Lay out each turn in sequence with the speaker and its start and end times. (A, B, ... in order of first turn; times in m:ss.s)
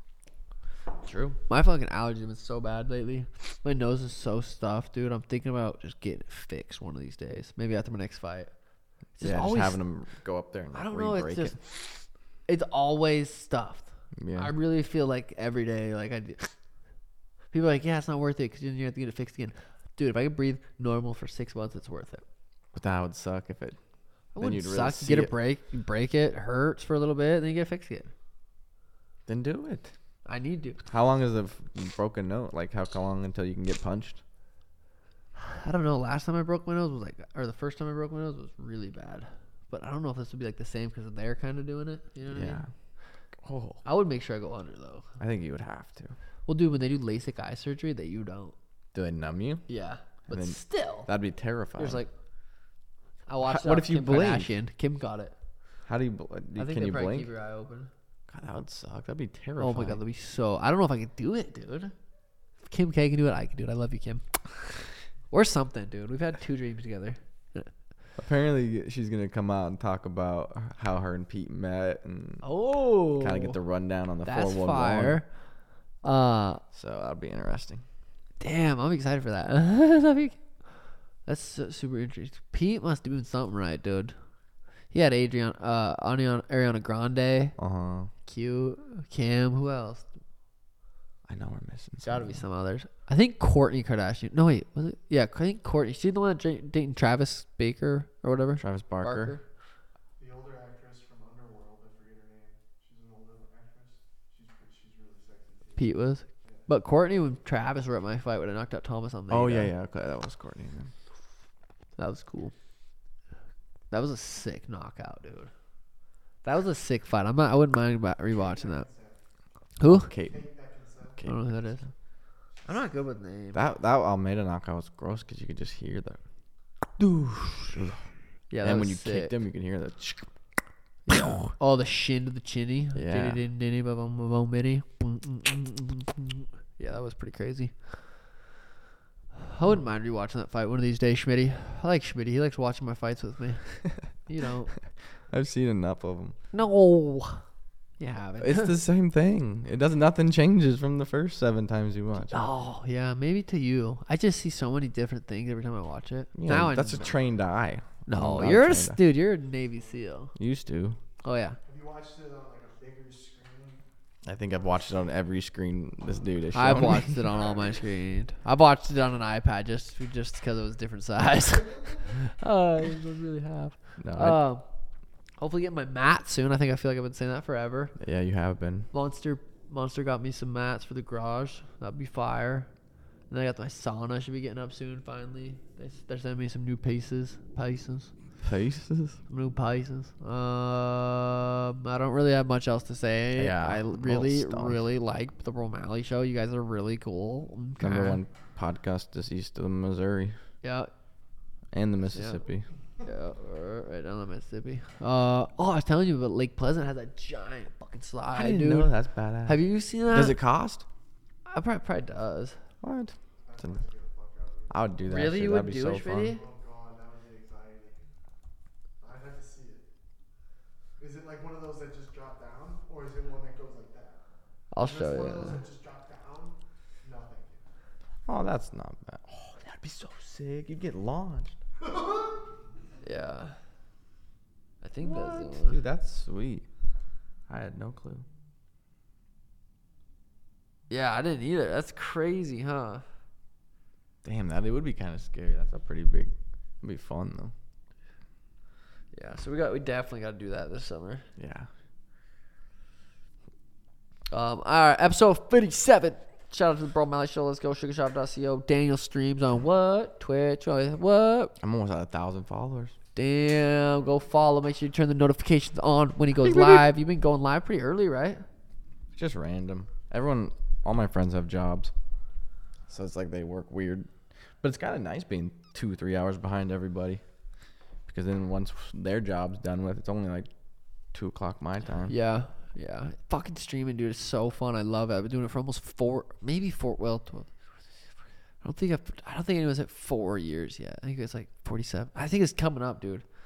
0:01.0-0:01.4 A
0:01.5-0:08.5 B
0:09.2-0:09.8 B
0:09.2-0:11.6 A
0:10.7-0:16.5 B
0:14.2-0:14.5 A
0:17.5-0:22.2 B
0:22.7-0:23.8 A
0:24.3-0:28.1 B
0:24.4-0:25.3 A
0:29.3-0:29.9 A
0:30.2-0:30.8 B
0:30.8-0:34.2 A
0:35.4-0:42.6 B
0:42.3-0:42.7 A
0:43.4-0:43.8 A
0:43.8-0:45.1 B
0:45.2-0:46.1 A
0:46.5-0:48.5 B
0:48.9-0:49.6 A
0:49.7-0:51.1 B
0:50.3-0:52.0 A
0:51.8-0:52.1 B
0:53.3-0:55.3 B
0:53.4-0:54.5 A
0:55.8-0:57.3 A
0:56.6-0:57.9 B
0:58.3-1:00.0 A
0:59.6-1:01.9 B
1:02.7-1:04.2 B
1:05.3-1:07.7 B
1:08.2-1:12.5 A
1:12.4-1:13.6 B
1:13.1-1:15.2 A
1:14.2-1:15.3 B
1:16.0-1:16.6 B
1:16.7-1:17.8 A
1:18.4-1:20.4 B
1:21.2-1:24.1 B
1:24.9-1:27.5 B
1:27.6-1:28.1 A
1:28.2-1:30.1 B
1:31.3-1:32.4 A
1:32.0-1:39.4 B
1:38.6-1:39.4 A
1:40.2-1:46.7 C
1:45.8-1:49.7 B
1:49.3-1:50.9 A
1:52.0-1:52.5 B
1:53.9-1:55.5 B
1:56.4-1:58.8 B
1:58.3-1:59.2 C
1:59.8-2:00.1 B
1:59.8-2:00.4 A
2:00.3-2:01.2 C
2:01.2-2:01.5 A
2:01.2-2:01.8 B
2:02.6-2:03.6 B
2:03.5-2:06.2 A
2:07.0-2:07.8 B
2:08.5-2:09.3 B
2:08.6-2:10.3 A
2:11.1-2:11.5 A
2:11.1-2:18.0 B
2:12.9-2:13.4 A
2:19.4-2:24.7 B
2:25.3-2:26.4 A
2:26.5-2:27.4 B
2:28.0-2:28.7 B
2:28.4-2:32.4 A
2:32.3-2:37.1 B
2:36.3-2:39.0 A
2:38.0-2:40.3 B
2:40.4-2:41.0 A
2:41.2-2:41.6 B
2:41.6-2:43.8 C
2:44.2-2:47.2 A
2:46.5-2:54.6 B
2:47.3-2:47.8 C
2:54.0-2:54.4 A
2:55.4-2:57.9 B
2:58.0-2:58.9 A
2:58.9-3:02.7 B
3:03.3-3:08.1 B
3:08.4-3:09.2 A
3:09.3-3:18.2 B
3:13.4-3:14.8 A
3:17.8-3:20.4 A
3:20.6-3:20.9 B
3:21.7-3:22.7 A
3:22.1-3:22.4 B
3:23.0-3:30.4 B
3:28.3-3:30.8 A
3:31.5-3:32.6 B
3:32.8-3:33.8 A
3:33.4-3:34.8 C
3:34.7-3:36.4 A
3:35.0-3:36.4 B
3:36.2-3:38.0 C
3:39.0-3:39.8 C
3:41.0-3:44.2 C
3:44.7-3:45.6 B
3:44.8-3:47.6 C
3:48.2-3:51.6 A
3:51.8-3:52.4 C
3:53.0-3:53.6 B
3:54.8-3:55.8 B
3:55.0-3:56.7 A
3:57.5-3:58.2 A
4:00.9-4:03.0 B
4:04.2-4:07.5 A
4:09.1-4:11.2 B
4:11.4-4:11.7 A
4:14.3-4:21.5 B
4:21.6-4:22.9 A
4:23.1-4:28.4 B
4:26.4-4:26.8 A
4:29.1-4:31.9 A
4:32.9-4:37.2 A
4:38.1-4:40.5 A
4:41.1-4:42.1 A
4:42.1-4:47.5 B
4:48.6-4:53.2 B